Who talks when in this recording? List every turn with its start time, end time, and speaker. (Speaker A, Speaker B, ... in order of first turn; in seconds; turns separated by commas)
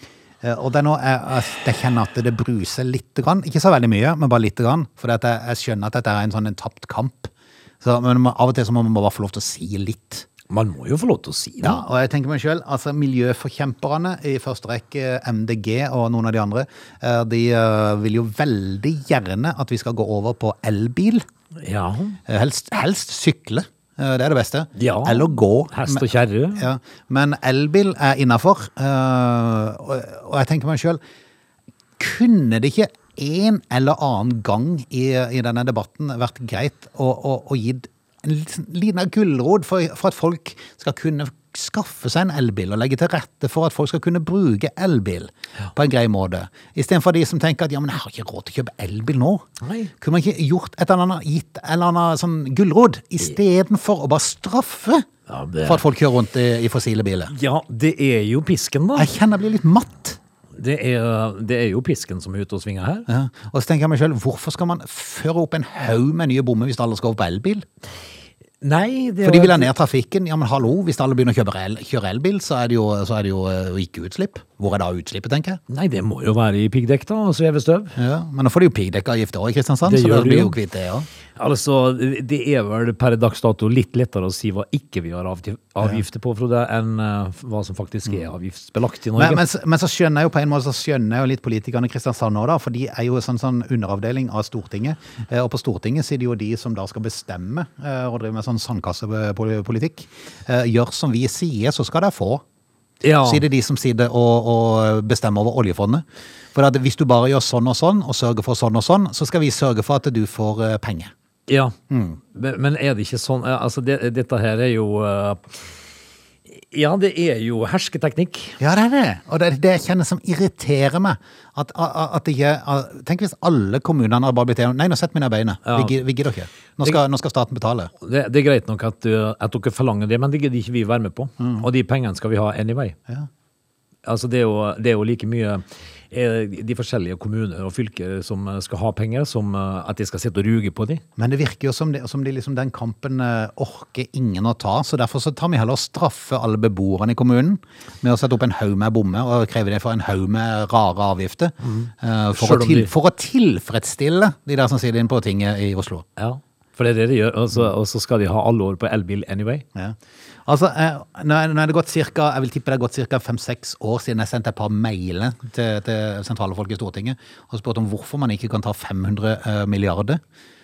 Speaker A: 0.4-10.2, Speaker B: 10.5-11.8, Speaker A: 11.6-21.2, Speaker B: 21.6-22.2, Speaker A: 22.3-31.0, Speaker B: 24.8-26.7, Speaker A: 32.0-49.4, Speaker B: 49.6-49.9, Speaker A: 50.0-55.1, Speaker B: 55.3-55.8, Speaker A: 55.6-57.3, Speaker B: 57.3-59.1, Speaker A: 59.0-60.2, Speaker B: 60.5-63.1, Speaker A: 63.1-67.6, Speaker B: 68.6-69.7, Speaker A: 69.2-75.6, Speaker B: 75.7-77.9, Speaker A: 78.0-81.1, Speaker B: 79.8-80.6, Speaker B: 81.4-89.4, Speaker A: 89.2-102.4, Speaker B: 103.0-103.4, Speaker A: 103.2-111.1, Speaker B: 111.5-115.7, Speaker A: 111.9-112.2, Speaker B: 116.5-118.6, Speaker A: 118.6-127.9, Speaker B: 125.7-126.0, Speaker B: 128.0-133.0, Speaker A: 131.4-131.7, Speaker B: 134.0-141.0, Speaker A: 141.2-156.0, Speaker B: 151.6-152.9, Speaker B: 156.2-159.7, Speaker A: 159.7-170.2